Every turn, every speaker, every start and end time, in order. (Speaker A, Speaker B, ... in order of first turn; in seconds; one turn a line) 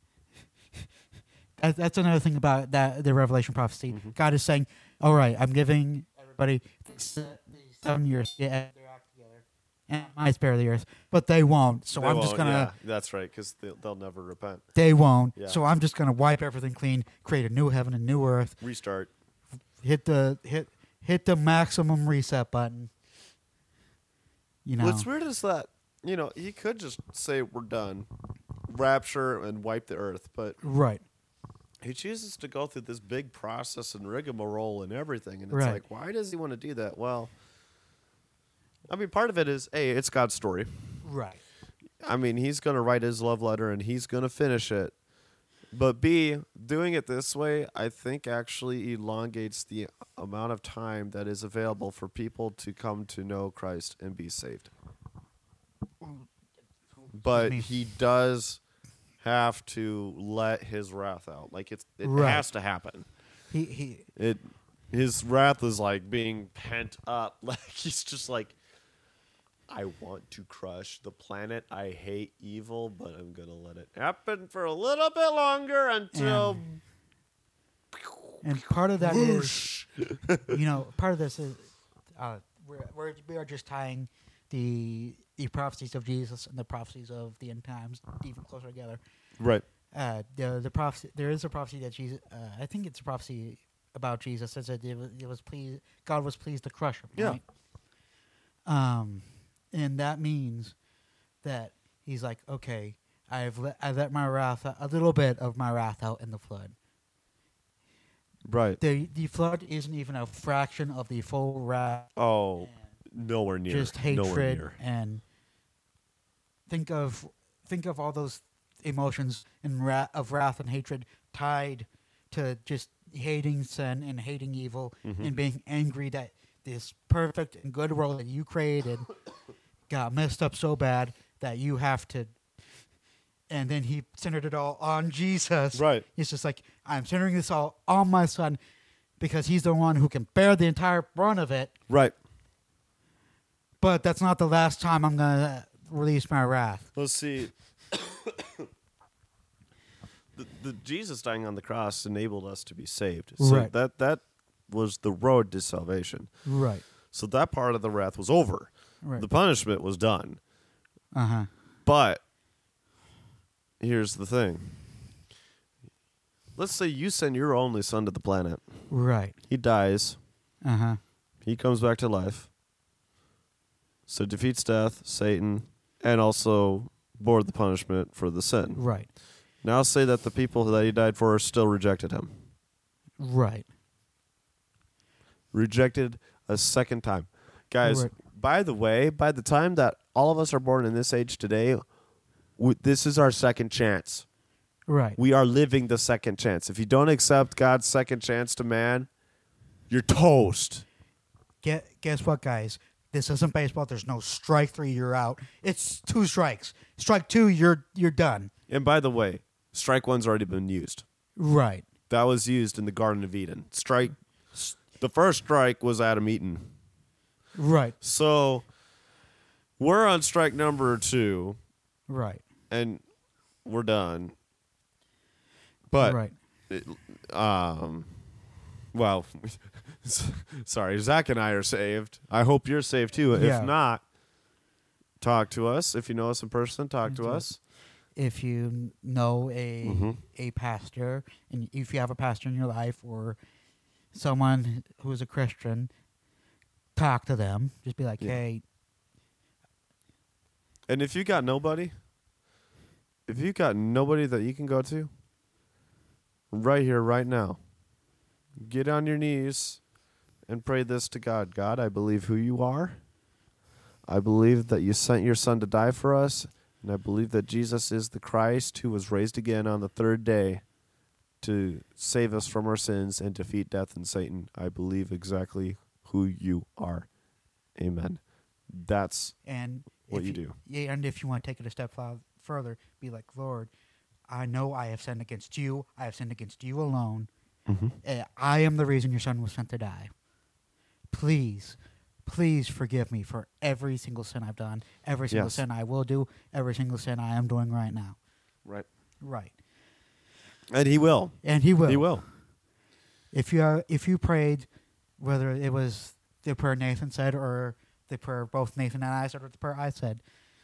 Speaker A: 1.6-12.7
Speaker B: 3.9-4.1
Speaker B: 12.0-14.6
Speaker A: 14.7-18.6
Speaker B: 18.6-19.1
Speaker A: 19.8-22.9
Speaker A: 24.6-25.1
Speaker B: 24.8-28.1
Speaker B: 28.7-30.6
Speaker A: 30.6-31.0
Speaker B: 31.8-37.3
Speaker A: 35.5-35.8
Speaker B: 38.9-40.7
Speaker A: 41.0-41.4
Speaker B: 42.0-44.9
Speaker B: 45.7-54.7
Speaker B: 57.2-58.6
Speaker A: 57.3-57.7
Speaker B: 59.2-63.0
Speaker A: 62.0-62.5
Speaker A: 63.5-64.1
Speaker B: 64.2-68.5
Speaker B: 69.7-76.6
Speaker A: 76.1-76.8
Speaker B: 78.0-78.3
Speaker A: 78.4-79.7
Speaker B: 79.0-80.6
Speaker A: 80.5-89.0
Speaker B: 89.4-89.6
Speaker A: 89.9-97.4
Speaker A: 98.7-100.7
Speaker A: 101.4-106.7
Speaker B: 108.4-108.8
Speaker A: 108.8-112.1
Speaker B: 112.2-114.7
Speaker A: 113.7-115.2
Speaker A: 116.7-129.1
Speaker B: 125.0-125.3
Speaker A: 129.9-132.3
Speaker A: 133.5-138.6
Speaker B: 135.7-136.0
Speaker A: 139.2-141.7
Speaker B: 141.9-142.1
Speaker A: 143.8-146.9
Speaker B: 146.9-148.7
Speaker B: 150.3-156.3
Speaker A: 153.4-153.7
Speaker A: 156.4-156.8
Speaker B: 157.1-160.4
Speaker A: 161.1-161.5
Speaker B: 161.8-162.2
Speaker B: 163.8-164.8
Speaker B: 166.6-168.6
Speaker A: 168.9-169.4
Speaker B: 169.5-170.2
Speaker A: 170.6-171.0
Speaker B: 171.4-172.5
Speaker B: 174.1-178.8
Speaker A: 178.8-179.1
Speaker B: 179.6-182.3
Speaker A: 183.2-183.7
Speaker B: 185.5-191.8
Speaker A: 187.8-188.1
Speaker B: 192.6-194.2
Speaker A: 194.9-195.2
Speaker B: 195.2-199.1
Speaker B: 199.9-200.8
Speaker A: 201.6-208.5
Speaker B: 208.7-211.0
Speaker A: 211.4-211.8
Speaker B: 212.1-214.2
Speaker B: 214.7-216.7
Speaker A: 217.6-217.9
Speaker B: 218.0-218.7
Speaker B: 219.8-221.6
Speaker A: 222.1-222.4
Speaker B: 222.7-223.0
Speaker B: 223.6-224.3
Speaker B: 225.9-226.2
Speaker A: 226.0-226.3
Speaker B: 226.7-228.1
Speaker B: 228.9-234.0
Speaker A: 233.3-233.7
Speaker B: 235.2-237.6
Speaker A: 237.0-237.4
Speaker A: 238.2-243.4
Speaker B: 239.8-240.2
Speaker A: 244.1-245.9
Speaker A: 246.9-248.6
Speaker B: 250.9-251.9
Speaker B: 253.3-255.1
Speaker B: 256.5-257.6
Speaker B: 258.6-259.8
Speaker B: 260.5-263.0
Speaker B: 264.1-270.6
Speaker B: 271.4-277.1
Speaker B: 277.8-278.2
Speaker B: 278.7-279.3
Speaker A: 279.4-283.7
Speaker B: 280.1-280.5
Speaker A: 284.3-287.3
Speaker B: 287.7-287.9
Speaker A: 288.0-290.1
Speaker A: 291.1-298.2
Speaker B: 295.3-295.6
Speaker A: 299.2-299.5
Speaker B: 300.7-302.2
Speaker A: 301.4-302.2
Speaker A: 303.3-304.7
Speaker A: 305.2-310.2